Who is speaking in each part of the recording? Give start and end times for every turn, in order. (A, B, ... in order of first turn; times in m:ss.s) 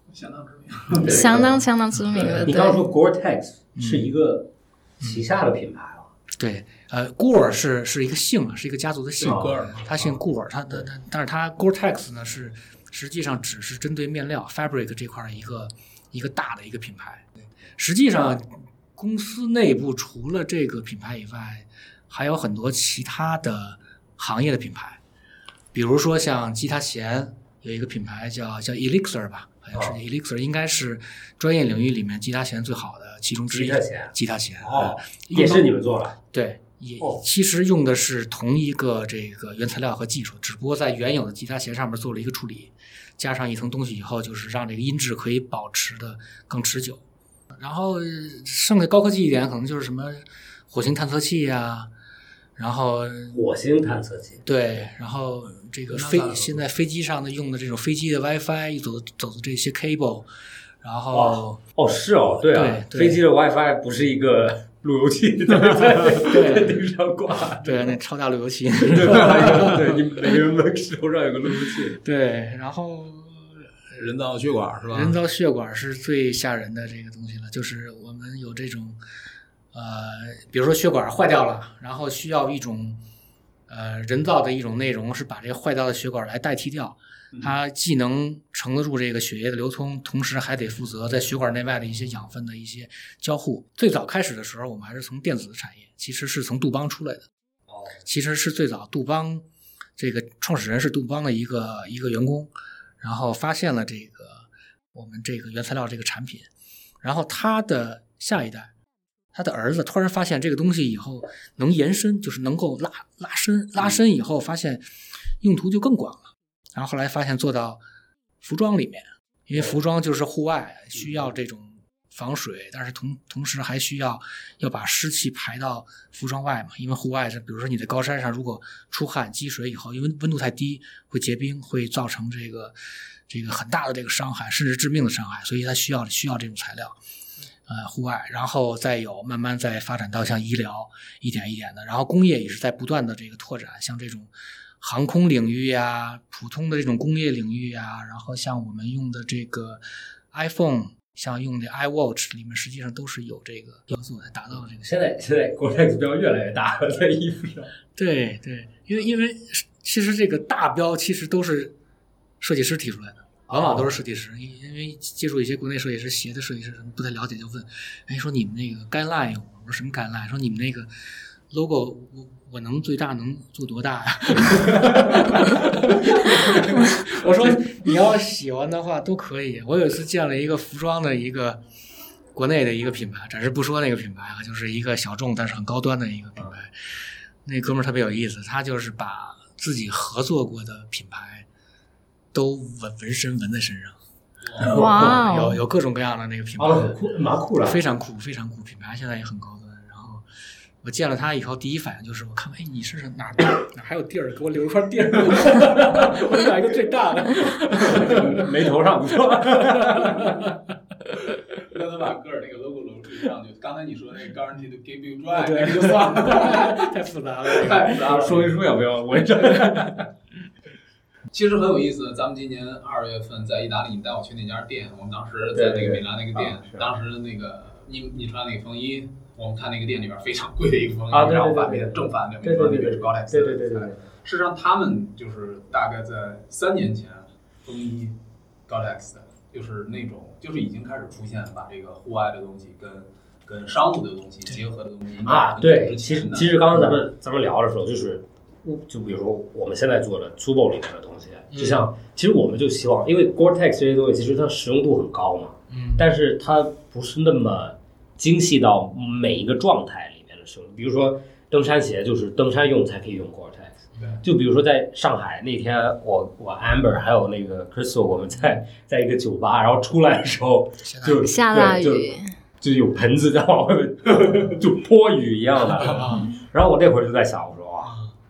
0:00.1-0:01.4 A
0:01.0-0:02.8 B
0:01.0-0:01.6 C
0:02.0-0:02.5 D
0:02.4-0:04.5 C
0:03.8-0:04.1 D
0:05.0-0:06.1 C
0:06.4-0:25.0 D
0:09.2-0:10.2 A
0:09.2-0:09.7 C
0:25.7-0:35.7 D
0:33.5-0:36.2 C
0:36.3-0:47.0 D
0:47.6-0:51.9 D
0:52.6-0:53.4 D
0:53.3-0:54.4 C
0:54.4-1:00.3 D
0:55.9-0:56.6 C
1:00.8-1:01.6 D
1:01.1-1:07.9 C
1:02.4-1:03.2 D
1:06.1-1:06.8 D
1:07.6-1:09.9 D
1:08.9-1:12.0 C
1:12.0-1:13.6 D
1:14.0-1:15.2 A
1:14.9-1:19.0 D
1:19.7-1:23.0 D
1:23.7-1:37.3 D
1:37.7-1:38.0 C
1:38.0-1:39.4 D
1:40.0-1:46.5 D
1:47.0-1:48.7 D
1:49.3-1:54.8 D
1:55.4-1:57.8 D
1:58.4-2:12.7 D
2:13.3-2:17.0 D
2:17.7-2:24.3 D
2:24.8-2:34.8 D
2:34.8-2:37.7 C
2:38.0-2:41.7 D
2:42.4-2:50.9 D
2:43.5-2:43.9 C
2:51.5-3:01.6 D
3:02.3-3:06.7 D
3:07.4-3:11.4 D
3:12.3-3:14.0 D
3:14.6-3:15.2 C
3:14.6-3:16.9 D
3:14.6-3:15.6 B
3:16.6-3:17.8 C
3:17.6-3:20.2 D
3:20.8-3:28.4 D
3:27.9-3:30.4 C
3:29.8-3:30.5 D
3:31.6-3:36.9 A
3:35.3-3:38.1 D
3:37.5-3:38.6 A
3:37.7-3:40.1 C
3:41.3-4:06.8 A
3:45.5-3:46.8 C
3:51.1-3:54.0 C
4:05.2-4:32.1 C
4:11.5-4:11.9 D
4:15.7-4:16.0 D
4:24.0-4:24.2 D
4:30.8-4:31.2 D
4:31.2-4:32.3 B
4:32.6-4:38.0 C
4:35.8-4:36.3 D